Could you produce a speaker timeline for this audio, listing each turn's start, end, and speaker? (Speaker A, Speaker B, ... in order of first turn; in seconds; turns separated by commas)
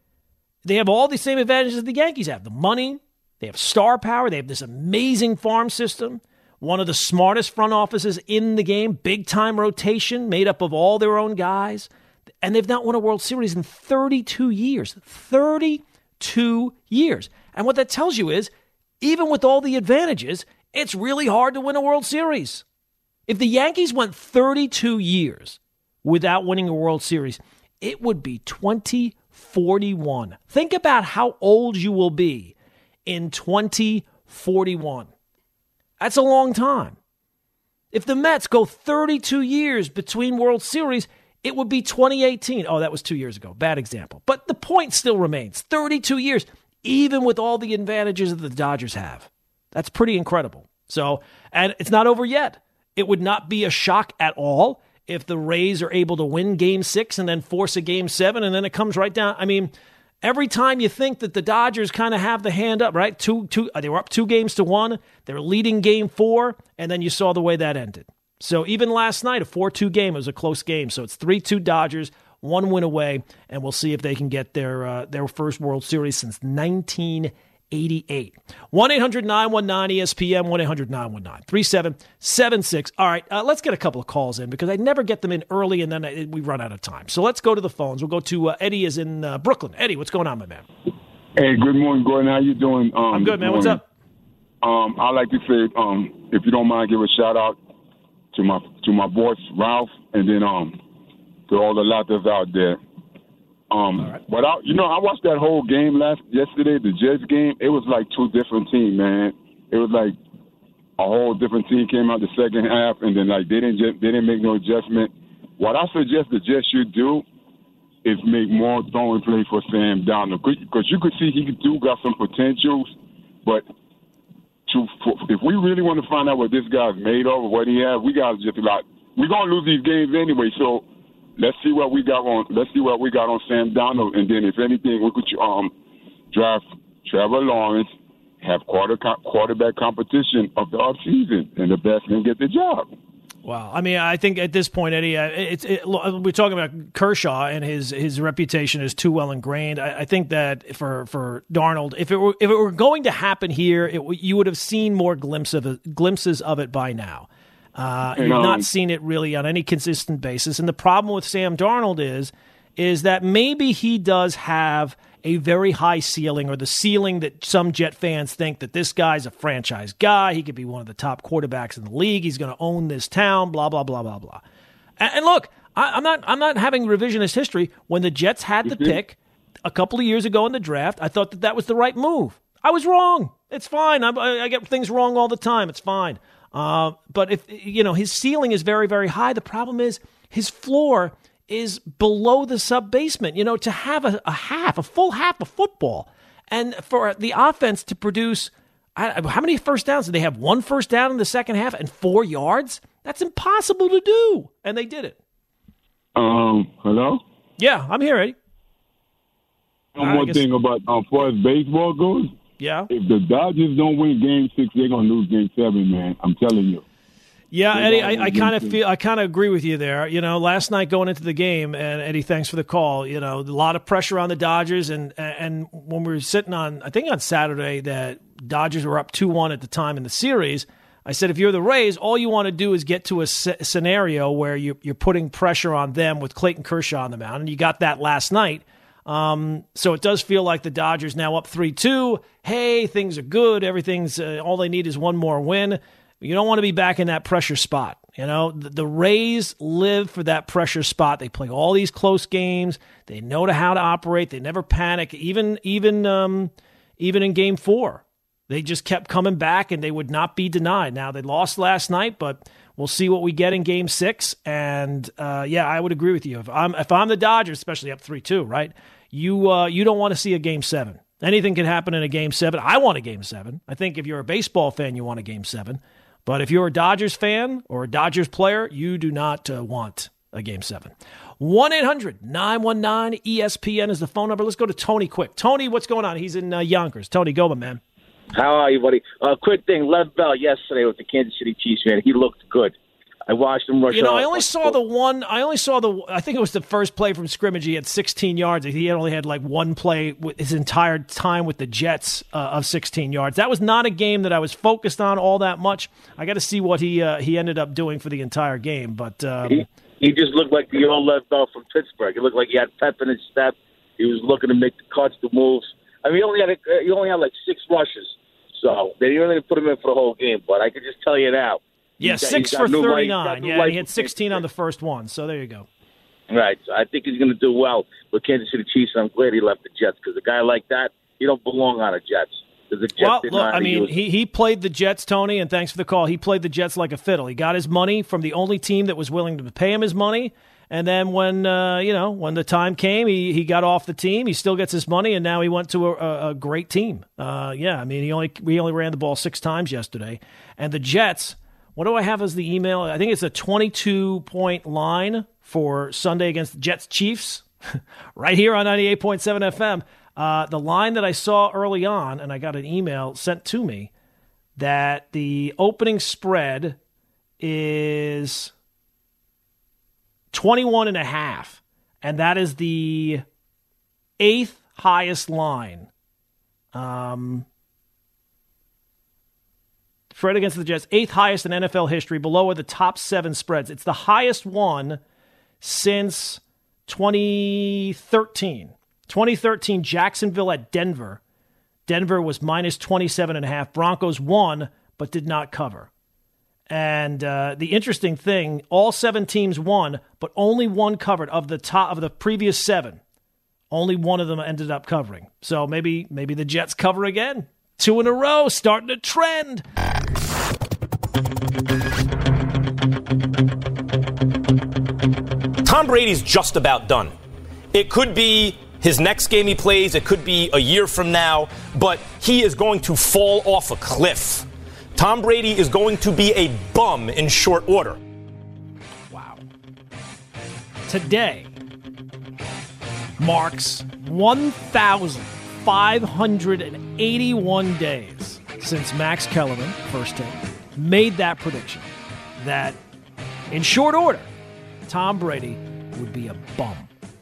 Speaker A: 0.6-11.9, Speaker A: 12.4-22.6, Speaker A: 23.3-32.5, Speaker A: 33.1-35.1, Speaker A: 36.0-37.0, Speaker A: 37.9-90.7, Speaker B: 91.4-93.8, Speaker A: 93.1-93.8, Speaker B: 94.6-97.6, Speaker B: 98.3-100.8, Speaker B: 101.5-102.8, Speaker B: 103.7-110.2, Speaker B: 111.0-117.2, Speaker B: 118.0-122.9, Speaker B: 124.7-130.9, Speaker B: 131.4-135.7, Speaker B: 136.3-137.9, Speaker B: 138.4-142.9, Speaker A: 143.4-174.4, Speaker B: 158.2-158.7, Speaker A: 175.0-205.2, Speaker B: 178.7-179.0, Speaker B: 206.2-207.2, Speaker A: 207.6-208.4, Speaker B: 210.0-212.3, Speaker A: 210.0-210.4, Speaker A: 212.6-212.9, Speaker B: 212.9-216.8, Speaker A: 217.5-287.8, Speaker B: 217.7-218.8, Speaker C: 288.3-292.8, Speaker C: 293.3-294.8, Speaker A: 293.9-309.7, Speaker C: 309.4-324.4, Speaker A: 322.0-325.7, Speaker C: 326.3-333.9, Speaker A: 333.0-363.9, Speaker A: 364.6-366.8, Speaker A: 367.4-368.5, Speaker A: 370.3-373.2, Speaker A: 374.2-375.9, Speaker A: 376.7-377.5, Speaker A: 380.1-385.0, Speaker A: 385.6-391.2, Speaker A: 391.9-395.9, Speaker A: 396.7-403.0, Speaker A: 403.7-409.6, Speaker D: 415.6-417.1, Speaker D: 417.7-428.0, Speaker A: 429.1-429.4, Speaker A: 430.9-431.5, Speaker A: 433.2-442.8, Speaker A: 443.5-444.3, Speaker A: 444.9-446.9